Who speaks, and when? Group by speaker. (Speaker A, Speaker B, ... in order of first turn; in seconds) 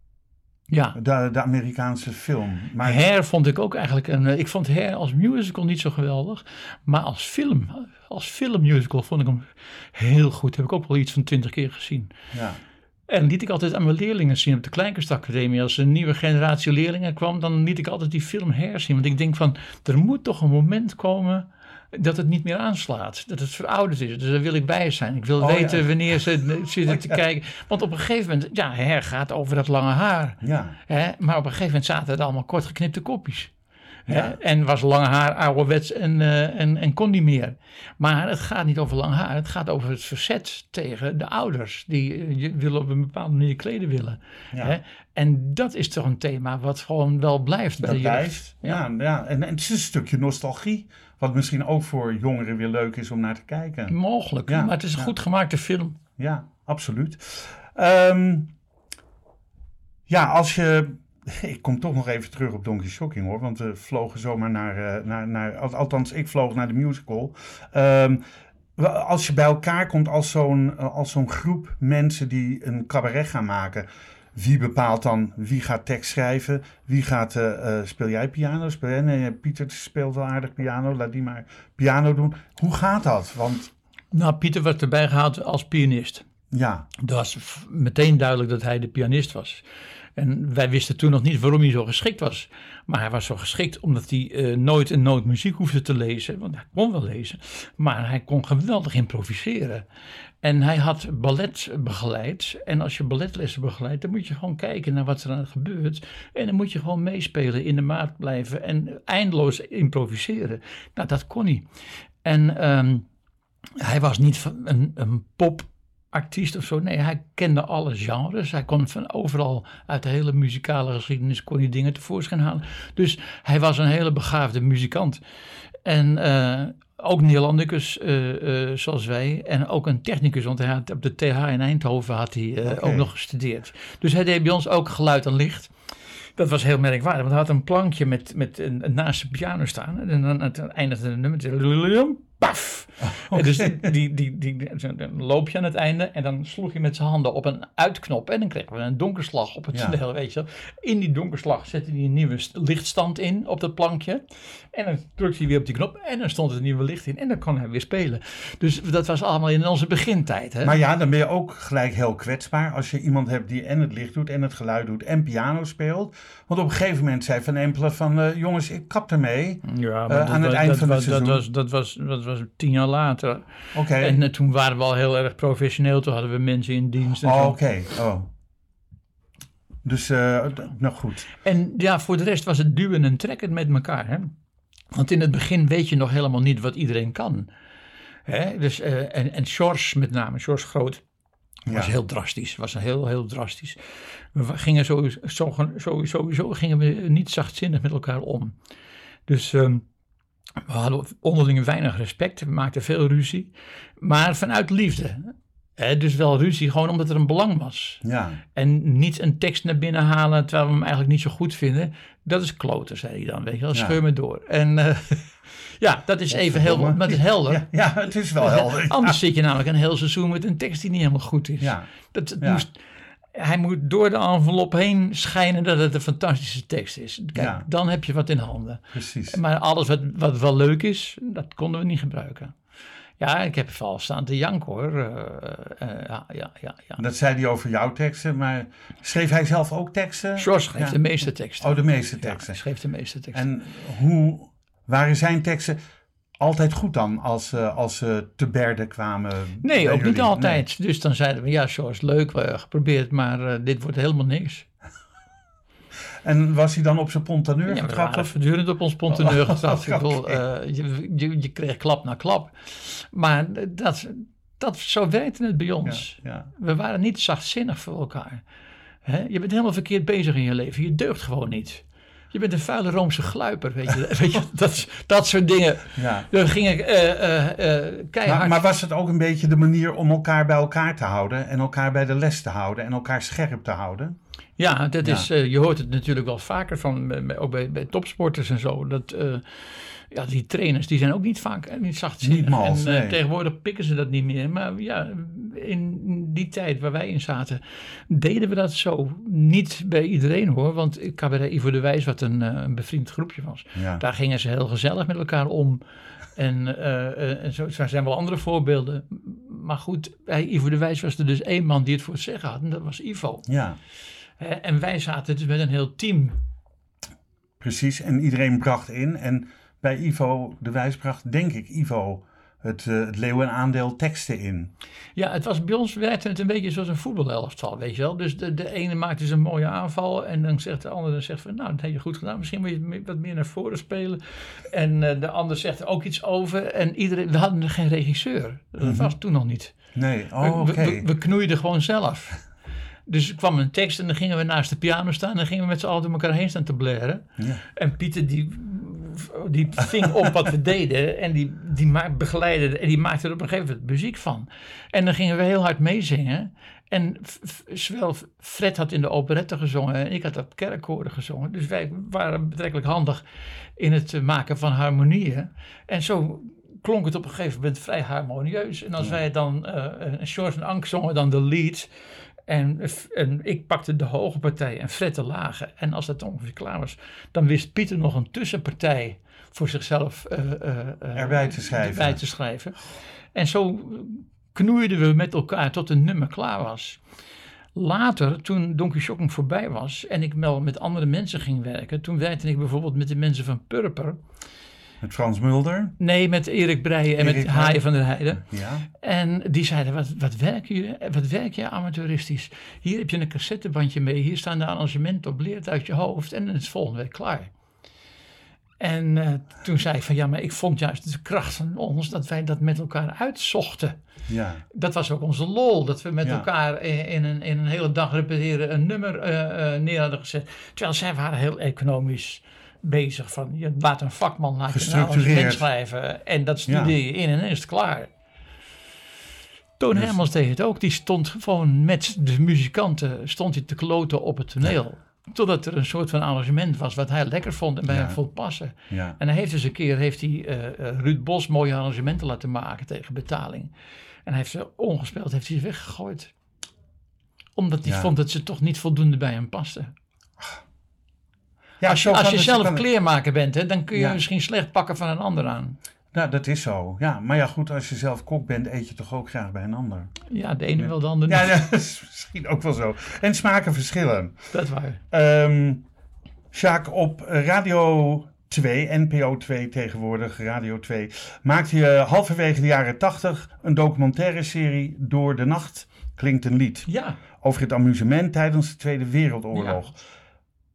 Speaker A: 0.7-0.9, 2.8-12.1, 13.1-33.5, 34.1-48.8, 53.9-56.0, 84.1-86.2, 87.0-89.6, 90.2-99.8, 100.4-111.7, 112.2-113.0, 113.8-125.2, 125.8-135.7, 136.4-160.8, 169.6-177.6, 181.4-184.3, 184.9-187.5, 188.2-191.0, 191.7-193.8, 194.3-198.5, 199.3-199.8, 200.7-208.0, 208.5-217.6, 218.4-222.8, 223.3-232.5, 233.2-237.0, 240.4-243.4, 249.6-254.7, 257.7-268.4, 269.0-278.6, 284.6-305.8, 306.3-313.4, 314.4-316.4, 325.1-339.7, 340.4-342.4, 343.1-363.2, 363.8-371.9, 372.5-382.8, 383.3-387.0, 387.7-394.2, 396.0-407.5, 408.8-414.0, 414.7-428.1, 429.8-443.7, 444.2-446.3, 447.6-449.9, 451.9-455.8, 460.3-461.5, 464.5-465.0, 476.9-477.2, 479.5-479.8
Speaker B: 0.9-3.0, 12.3-12.6, 25.4-26.2, 26.8-27.2, 30.4-30.7, 34.1-34.3, 47.8-53.9, 54.5-55.1, 56.2-58.5, 60.1-68.2, 68.8-83.7, 86.5-86.9, 132.7-133.1, 143.1-143.9, 160.6-171.4, 173.7-174.2, 177.2-178.3, 179.8-181.3, 191.7-191.9, 208.0-208.4, 213.7-214.0, 216.3-219.2, 221.6-221.9, 222.4-222.6, 227.3-227.7, 228.9-229.4, 237.0-241.0, 241.6-242.6, 243.3-245.8, 246.4-250.6, 256.2-258.3, 259.1-260.4, 265.8-266.5, 275.9-276.3, 278.2-284.2, 285.0-285.3, 292.2-293.2, 303.7-304.0, 313.5-313.8, 317.6-324.7, 338.8-339.1, 339.9-341.0, 350.0-350.3, 381.1-382.2, 395.0-395.9, 397.2-397.8, 398.3-398.9, 414.3-414.6, 424.7-425.6, 426.7-426.9, 437.9-438.2, 438.9-439.2, 447.8-448.1, 451.8-452.8, 453.9-454.2, 456.1-460.1, 460.8-464.4, 465.1-465.8, 466.5-476.9, 477.4-480.0